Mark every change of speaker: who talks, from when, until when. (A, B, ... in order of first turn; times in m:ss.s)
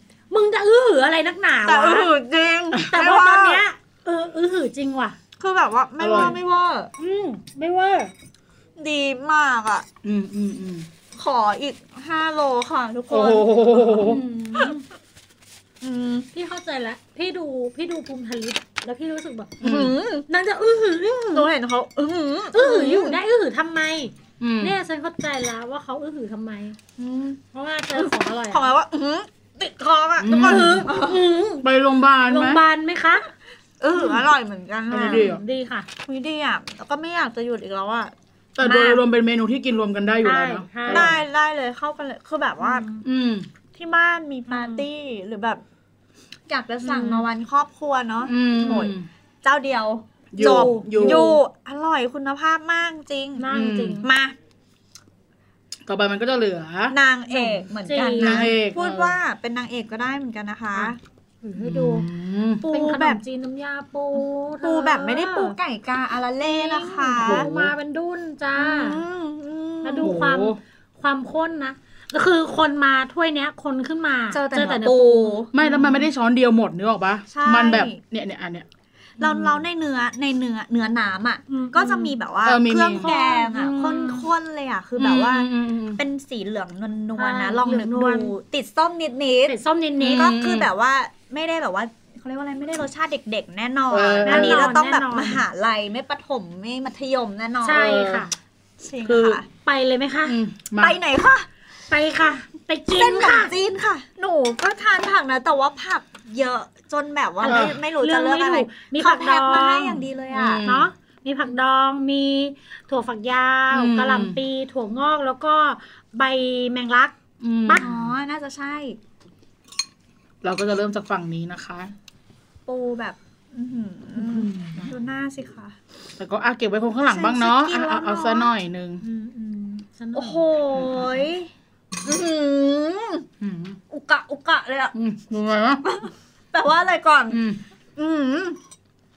0:00.3-0:02.1 A
0:01.7-0:03.6 B
0:02.9-0:05.2 A
0:05.4-0:06.9 B
0:06.0-0:06.4 C
0:07.0-0:08.1 A
0:08.8-0:09.9 B
0:10.0-0:10.9 C
0:11.2-0:13.6 B
0:13.1-0:14.2 C
0:14.0-0:14.8 A
0:15.8-0:16.3 B
0:16.3-0:19.6 A
0:19.6-0:20.0 C
0:19.6-0:20.3 B
0:20.3-0:21.5 A
0:21.1-0:23.2 B
0:22.5-0:26.8 A
0:24.4-0:24.8 C
0:27.0-0:27.4 B
0:27.5-0:28.7 A
0:28.0-0:31.2 B
0:30.2-0:30.9 C
0:30.4-0:31.6 A
0:31.6-0:32.6 C
0:32.3-0:33.3 A
0:33.8-0:35.3 B
0:33.9-0:34.3 A
0:34.9-0:35.4 C
0:35.0-0:35.9 A
0:36.0-0:39.0 B
0:38.6-0:41.2 C
0:40.2-0:41.1 A
0:40.9-0:42.8 B
0:42.6-0:43.0 A
0:43.0-0:43.5 C
0:43.7-0:45.6 B
0:44.5-0:44.8 A
0:46.5-0:53.5 B
0:46.8-0:47.3 A
0:48.2-0:49.1 C
0:50.3-0:51.4 C
0:50.4-0:51.4 A
0:53.4-0:54.1 A
0:53.5-0:54.0 C
0:54.0-0:54.4 B
0:55.9-0:57.0 C
0:56.9-1:01.0 B
0:57.3-0:58.5 A
0:58.2-0:59.2 C
1:01.4-1:02.1 A
1:01.6-1:02.6 C
1:02.6-1:05.6 A
1:02.7-1:03.2 B
1:04.6-1:07.5 B
1:06.4-1:09.0 A
1:07.2-1:07.7 C
1:08.6-1:10.2 B
1:09.8-1:16.0 A
1:10.0-1:10.6 C
1:14.3-1:15.5 B
1:15.5-1:18.7 C
1:17.3-1:18.0 B
1:19.2-1:19.6 A
1:19.2-1:29.6 B
1:21.5-1:22.2 A
1:22.4-1:23.1 C
1:23.0-1:24.3 A
1:25.0-1:26.0 C
1:27.2-1:28.3 A
1:29.5-1:30.3 A
1:30.0-1:30.7 C
1:30.2-1:38.0 B
1:33.9-1:34.7 C
1:34.2-1:35.4 A
1:37.6-1:38.4 A
1:37.7-1:38.3 C
1:38.8-1:39.5 B
1:39.0-1:39.4 C
1:39.6-1:40.4 A
1:40.3-1:41.0 C
1:40.8-1:41.5 B
1:41.9-1:43.5 A
1:43.0-1:50.6 B
1:47.4-1:50.0 A
1:47.4-1:47.8 C
1:50.3-1:50.9 C
1:50.6-1:57.8 A
1:53.7-1:54.4 C
1:57.4-1:58.1 C
1:57.8-1:59.0 B
2:00.4-2:01.9 C
2:02.7-2:05.8 B
2:04.2-2:04.9 A
2:06.2-2:09.0 C
2:07.1-2:08.5 B
2:09.0-2:10.5 A
2:10.2-2:11.5 B
2:10.8-2:11.3 C
2:12.0-2:13.3 B
2:13.4-2:13.8 C
2:13.9-2:14.9 B
2:14.9-2:15.9 C
2:15.8-2:17.4 B
2:17.3-2:17.6 C
2:18.0-2:18.6 B